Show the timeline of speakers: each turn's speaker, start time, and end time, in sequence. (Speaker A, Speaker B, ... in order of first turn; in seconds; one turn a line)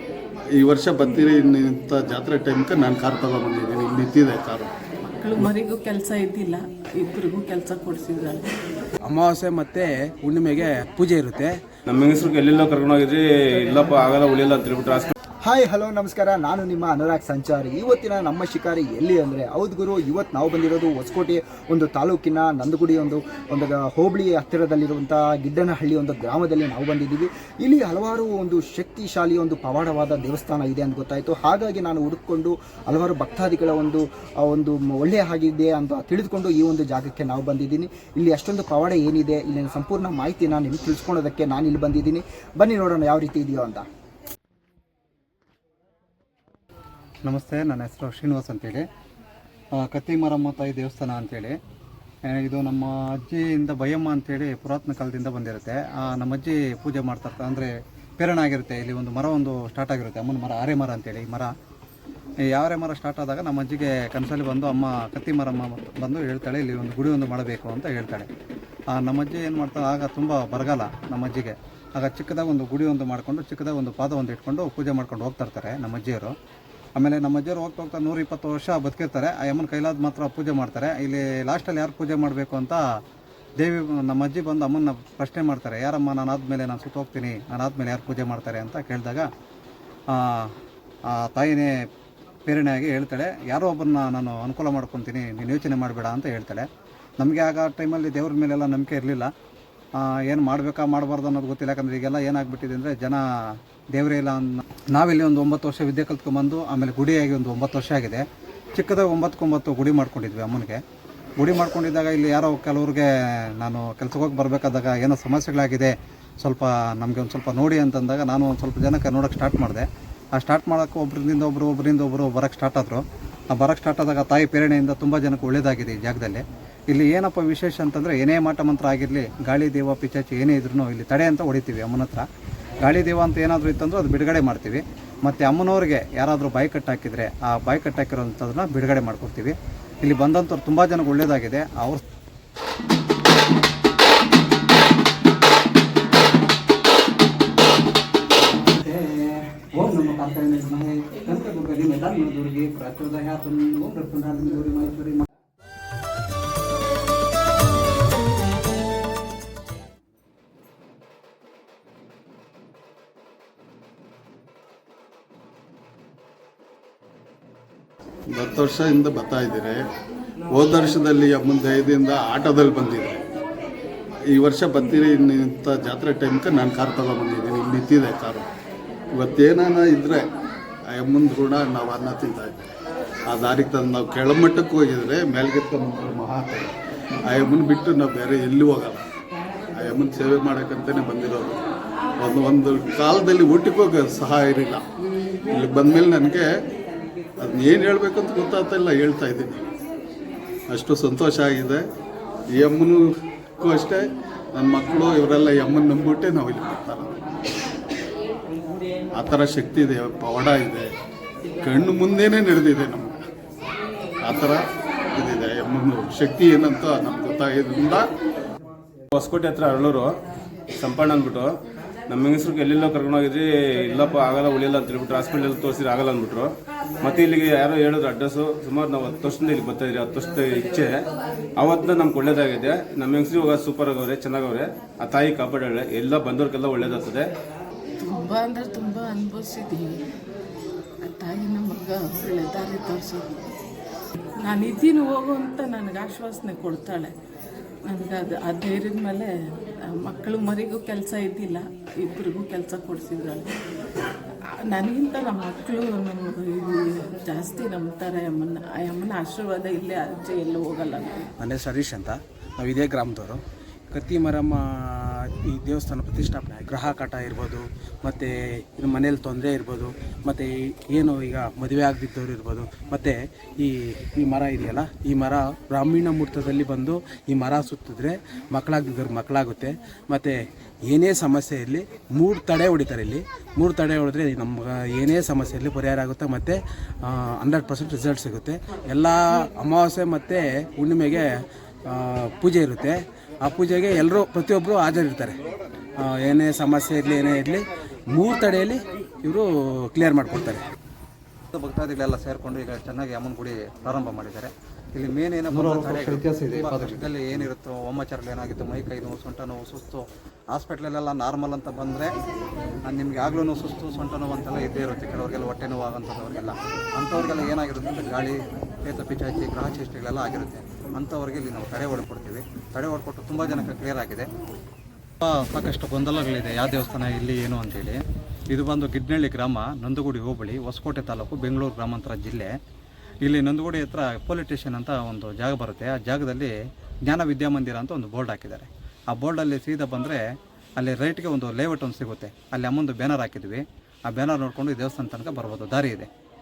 Speaker A: 0.6-4.7
Speaker B: 5.0-8.5
Speaker C: 9.0-11.6
Speaker D: 11.9-15.1
Speaker E: 15.4-43.9
Speaker F: 47.2-48.9
Speaker F: 49.7-51.6
Speaker F: 52.3-61.5
Speaker F: 62.5-68.3
Speaker F: 68.9-76.3
Speaker F: 77.0-82.8
Speaker F: 83.6-89.3
Speaker F: 90.1-90.5
Speaker F: 91.1-91.7
Speaker F: 92.5-96.7
Speaker F: 97.2-99.3
Speaker F: 100.0-103.2
Speaker F: 103.9-110.8
Speaker F: 111.4-132.3
Speaker F: 132.8-142.0
Speaker F: 148.4-155.3
Speaker A: 168.3-169.8
Speaker A: 170.5-173.2
Speaker A: 174.3-178.5
Speaker A: 179.1-180.3
Speaker A: 180.9-182.7
Speaker A: 183.3-186.7
Speaker A: 187.3-189.0
Speaker A: 189.7-191.6
Speaker A: 192.2-194.8
Speaker A: 195.5-196.5
Speaker A: 197.4-199.7
Speaker A: 200.7-201.9
Speaker A: 202.5-207.2
Speaker A: 209.1-210.9
Speaker A: 211.6-213.2
Speaker A: 214.2-218.1
Speaker D: 219.1-220.1
Speaker D: 220.8-221.5
Speaker D: 222.1-231.0
Speaker D: 231.6-237.3
Speaker B: 238.0-239.9
Speaker B: 241.0-243.3
Speaker B: 244.2-247.1
Speaker B: 247.9-249.3
Speaker B: 249.8-253.5
Speaker B: 254.7-261.3
Speaker C: 261.4-295.4
Speaker C: 296.0-300.7
Speaker F: 301.5-312.1
Speaker A: 305.6-306.9
Speaker F: 312.9-324.3
Speaker F: 325.2-328.0
Speaker F: 328.5-332.5
Speaker F: 333.2-336.5
Speaker F: 337.1-340.2
Speaker F: 340.8-346.1